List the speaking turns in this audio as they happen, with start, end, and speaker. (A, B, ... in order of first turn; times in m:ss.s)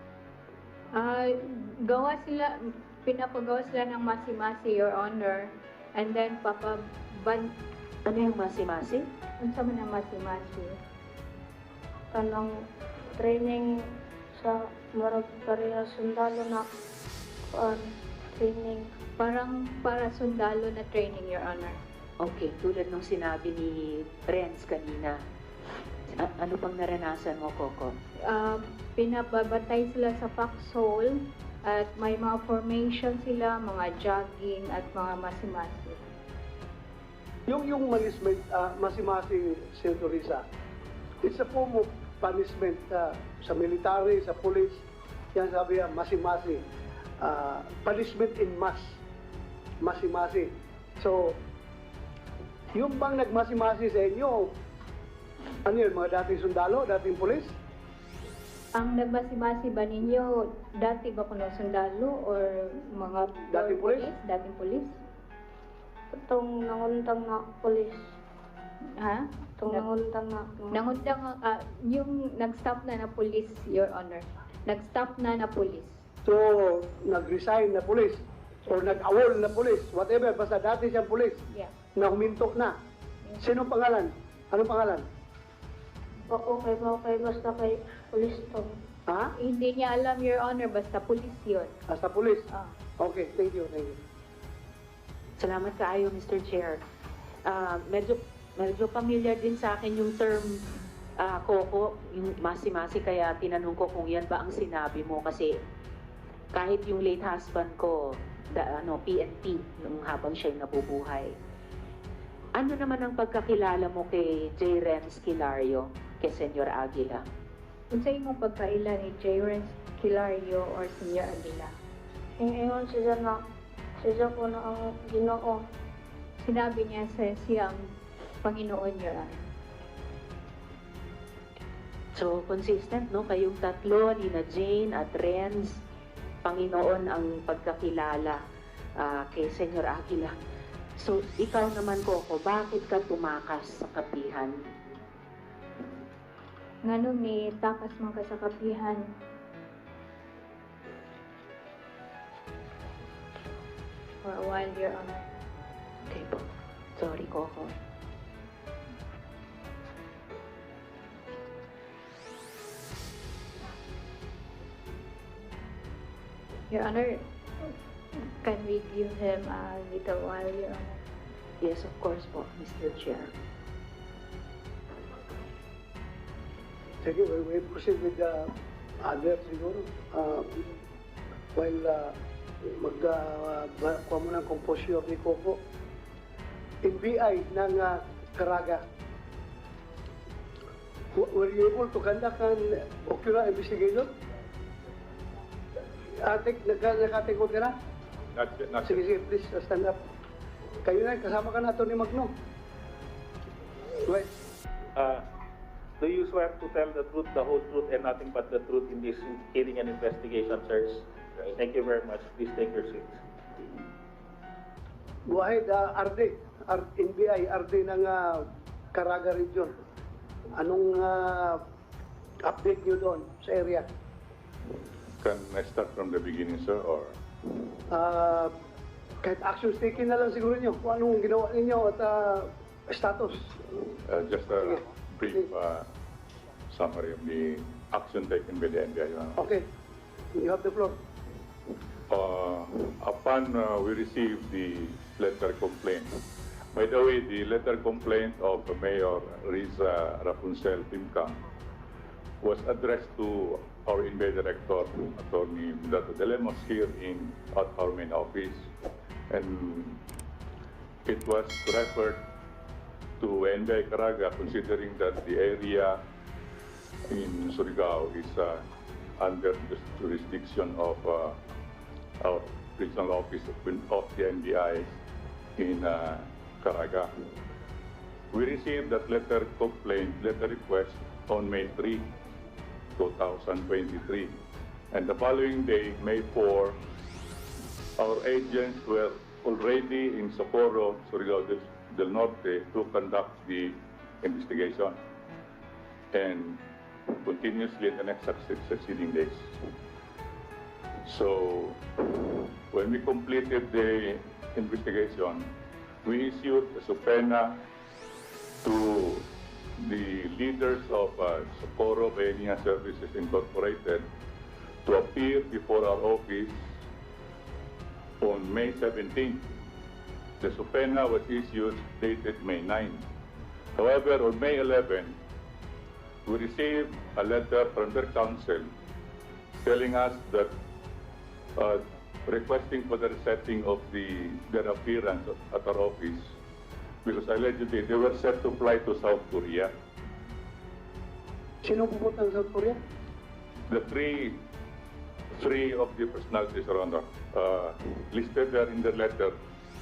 0:01.0-0:07.5 A
0:08.0-0:09.1 B
0:09.4-0:10.8 A
0:12.1-0:16.7 C
0:17.5-0:18.9 C
0:19.2-0:21.8 A
0:22.2-0:25.2 B
0:26.2-0:28.0 B
0:28.3-0:36.0 A
0:37.5-0:40.4 D
0:41.2-0:46.6 D
0:47.2-0:49.0 D
0:49.8-0:51.4 D
0:52.8-0:54.5 D
0:55.7-0:57.6 D
0:58.8-1:05.0 A
1:03.5-1:04.1 D
1:06.1-1:08.1 C
1:09.0-1:09.9 A
1:09.6-1:11.1 C
1:10.7-1:16.0 A
1:16.3-1:21.4 D
1:22.0-1:22.7 D
1:23.4-1:25.0 D
1:26.3-1:28.7 C
1:29.1-1:29.3 D
1:29.4-1:31.8 A
1:31.9-1:32.5 D
1:33.0-1:34.0 D
1:35.4-1:36.8 B
1:37.4-1:40.7 B
1:41.2-1:45.5 B
1:46.5-1:51.3 B
1:52.6-1:57.2 B
1:57.9-2:01.7 A
2:02.4-2:03.4 C
2:04.0-2:05.6 C
2:06.4-2:07.8 A
2:08.4-2:09.4 A
2:12.2-2:15.8 B
2:16.4-2:18.4 B
2:19.0-2:20.3 B
2:21.0-2:24.6 B
2:26.8-2:29.0 A
2:34.2-2:35.3 A
2:36.1-2:36.4 B
2:37.0-2:37.7 B
2:46.7-2:51.0 A
2:51.6-2:53.3 B
2:57.0-2:58.5 D
2:59.0-3:00.6 D
3:01.6-3:02.2 D
3:02.7-3:05.6 D
3:06.8-3:08.8 D
3:11.2-3:14.1 D
3:16.2-3:17.7 D
3:18.4-3:19.0 E
3:18.9-3:20.0 D
3:20.8-3:22.3 D
3:25.0-3:25.2 F
3:26.0-3:33.2 F
3:35.3-3:39.7 D
3:40.6-3:41.6 D
3:42.4-3:43.8 D
3:45.2-3:47.2 E
3:47.9-3:48.5 D
3:49.2-3:53.8 D
3:54.0-3:55.9 E
3:56.7-3:59.4 E
3:59.4-3:59.6 D
4:00.4-4:01.0 D
4:02.1-4:06.2 E
4:06.7-4:11.4 E
4:12.4-4:18.7 E
4:19.3-4:20.0 E
4:21.1-4:22.2 E
4:23.2-4:26.0 E
4:27.1-4:28.7 E
4:29.2-4:31.4 E
4:32.2-4:35.0 E
4:35.6-4:37.1 E
4:38.3-4:42.1 E
4:43.0-4:44.3 E
4:44.9-4:46.8 E
4:48.0-4:55.0 E
4:56.1-4:56.6 E
4:57.2-4:59.6 E
5:01.0-5:05.5 E
5:06.0-5:07.6 E
5:08.6-5:09.3 E
5:09.8-5:14.1 E
5:14.8-5:16.8 E
5:18.2-5:19.4 E
5:20.4-5:23.0 E
5:23.8-5:25.2 E
5:26.3-5:28.7 E
5:29.6-5:30.5 E
5:31.6-5:36.4 E
5:37.0-5:39.7 E
5:41.6-5:42.8 D
5:43.7-5:44.4 E
5:45.4-5:49.4 E